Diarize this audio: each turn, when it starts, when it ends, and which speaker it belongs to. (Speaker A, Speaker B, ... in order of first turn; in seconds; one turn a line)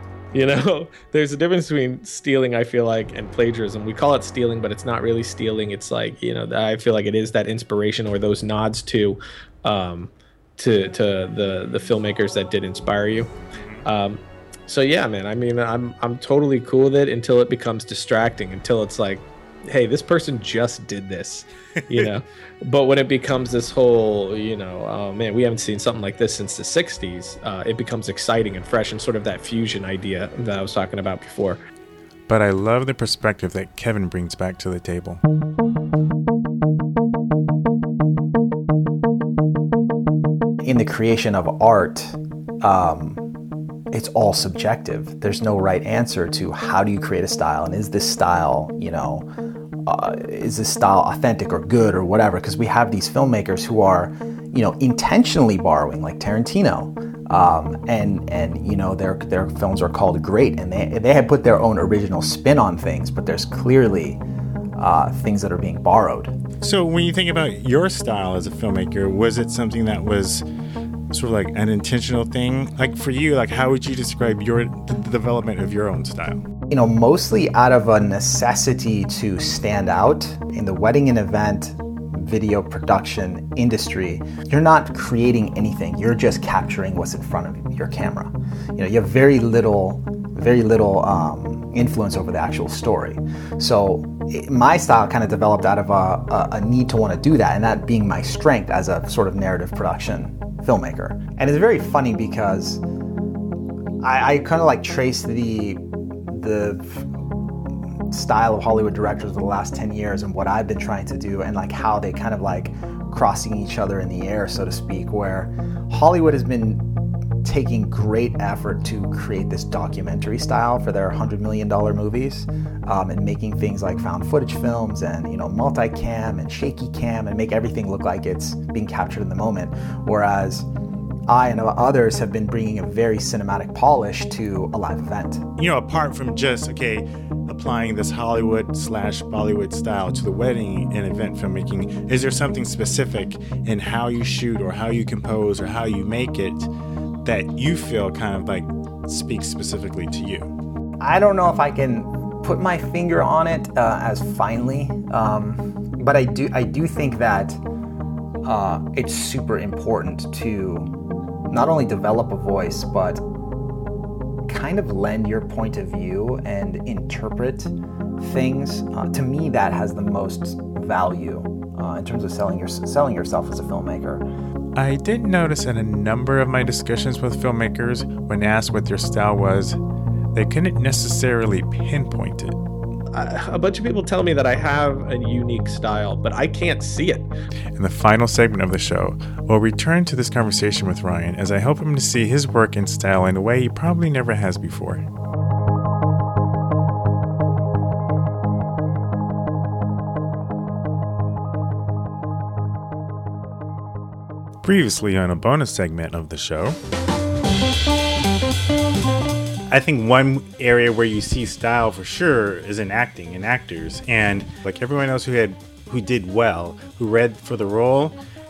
Speaker A: 0.3-13.3
Speaker B: 13.6-13.8
Speaker A: 13.8-31.6
Speaker B: 32.3-35.2
Speaker C: 40.6-43.3
Speaker C: 43.9-49.3
Speaker C: 49.9-64.2
Speaker C: 64.8-66.3
Speaker B: 66.6-70.5
Speaker B: 71.1-76.5
Speaker C: 76.7-102.8
Speaker C: 104.0-116.9
Speaker C: 117.4-130.7
Speaker C: 131.3-135.4
Speaker B: 135.6-146.7
Speaker B: 147.2-150.5
Speaker C: 151.0-157.6
Speaker C: 158.4-160.9
Speaker C: 161.5-163.2
Speaker C: 164.5-174.3
Speaker B: 174.8-179.8
Speaker B: 180.3-182.6
Speaker A: 183.1-187.3
Speaker B: 187.8-195.0
Speaker B: 204.6-206.8
Speaker B: 209.7-218.2